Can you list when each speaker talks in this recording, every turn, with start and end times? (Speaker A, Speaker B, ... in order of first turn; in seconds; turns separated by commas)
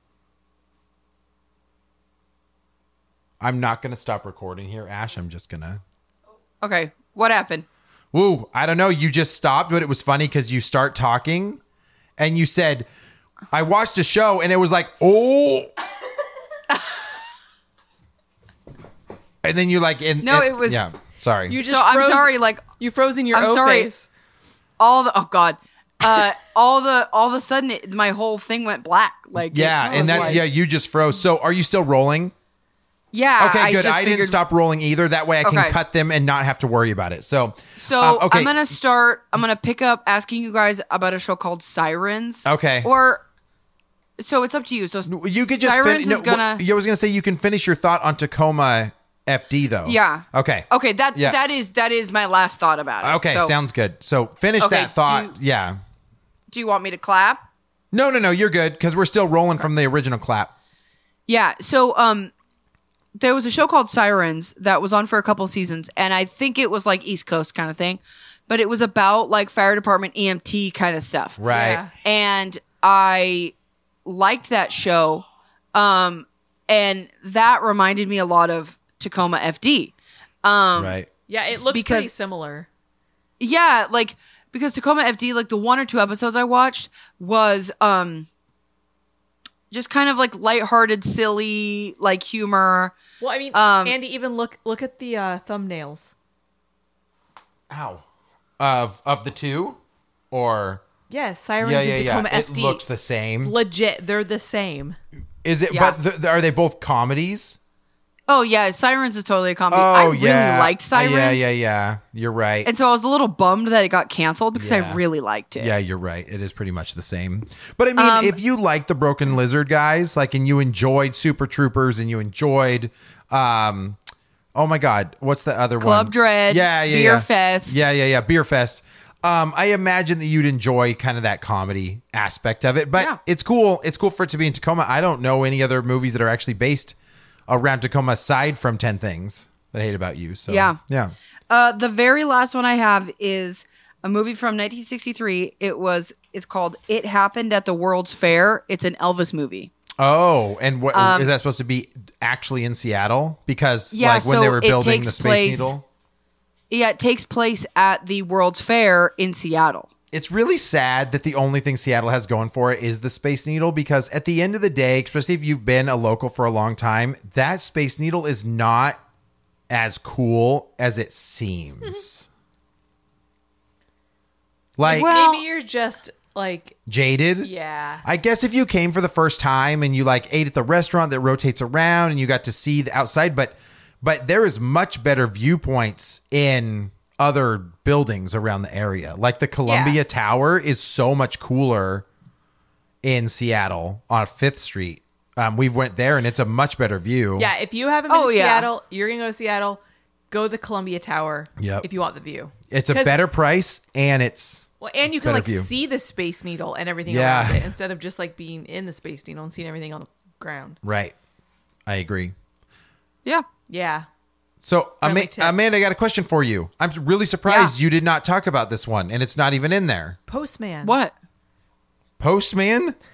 Speaker A: 3.4-5.8, Speaker B: 6.6-7.7, Speaker A: 8.1-11.6, Speaker A: 12.2-12.9, Speaker A: 13.5-15.7, Speaker A: 19.4-21.6, Speaker B: 20.2-20.8, Speaker C: 21.5-24.1, Speaker B: 21.6-22.6, Speaker B: 23.3-23.9, Speaker B: 24.8-30.4, Speaker A: 29.5-32.3, Speaker C: 29.8-30.4, Speaker B: 33.1-34.4, Speaker A: 33.4-38.5, Speaker B: 35.4-35.7, Speaker B: 37.8-43.2, Speaker A: 42.4-42.9, Speaker B: 44.2-45.1, Speaker A: 45.1-51.4, Speaker B: 45.6-46.6, Speaker B: 49.9-53.5, Speaker A: 53.0-55.8, Speaker B: 54.6-55.3, Speaker B: 56.5-57.4, Speaker A: 57.9-60.5, Speaker B: 61.3-62.3, Speaker B: 63.2-71.4, Speaker A: 71.4-71.8, Speaker C: 71.5-71.9, Speaker B: 72.0-73.5, Speaker B: 74.0-81.0, Speaker A: 80.8-81.1, Speaker C: 81.3-82.7, Speaker B: 81.5-82.1, Speaker B: 83.4-88.3, Speaker B: 89.7-92.9, Speaker C: 93.2-96.1, Speaker B: 93.5-94.0, Speaker A: 97.7-98.0, Speaker A: 98.6-99.8, Speaker A: 100.3-100.8, Speaker C: 101.1-102.8, Speaker A: 101.6-103.5, Speaker C: 103.4-105.0, Speaker A: 105.4-107.6, Speaker B: 105.7-106.0, Speaker B: 108.3-111.5, Speaker A: 109.7-112.7, Speaker B: 112.6-115.7, Speaker A: 114.5-115.0, Speaker A: 115.6-124.0, Speaker B: 118.0-118.4, Speaker A: 124.5-136.9, Speaker B: 125.8-127.8, Speaker A: 137.5-141.1, Speaker B: 140.5-140.8, Speaker B: 141.5-149.7, Speaker A: 150.0-155.8, Speaker B: 150.9-151.3, Speaker B: 153.9-155.7, Speaker B: 156.7-159.9, Speaker A: 160.1-169.0, Speaker A: 169.7-172.3, Speaker A: 174.8-175.2, Speaker B: 174.8-175.4, Speaker C: 174.8-176.8, Speaker A: 176.8-177.5, Speaker C: 177.4-178.0, Speaker A: 178.0-192.0, Speaker C: 189.6-190.0, Speaker A: 193.0-197.5, Speaker C: 197.4-199.8, Speaker B: 198.1-198.7, Speaker C: 200.3-203.2, Speaker A: 201.6-201.8, Speaker A: 202.7-204.7, Speaker C: 204.8-210.8, Speaker A: 205.2-205.7, Speaker A: 207.1-207.7, Speaker A: 210.8-211.1, Speaker A: 211.9-212.3, Speaker C: 213.7-214.1, Speaker A: 214.6-220.2, Speaker C: 215.0-215.6, Speaker B: 217.4-217.7, Speaker C: 220.3-221.0, Speaker B: 220.8-221.1, Speaker A: 222.2-222.9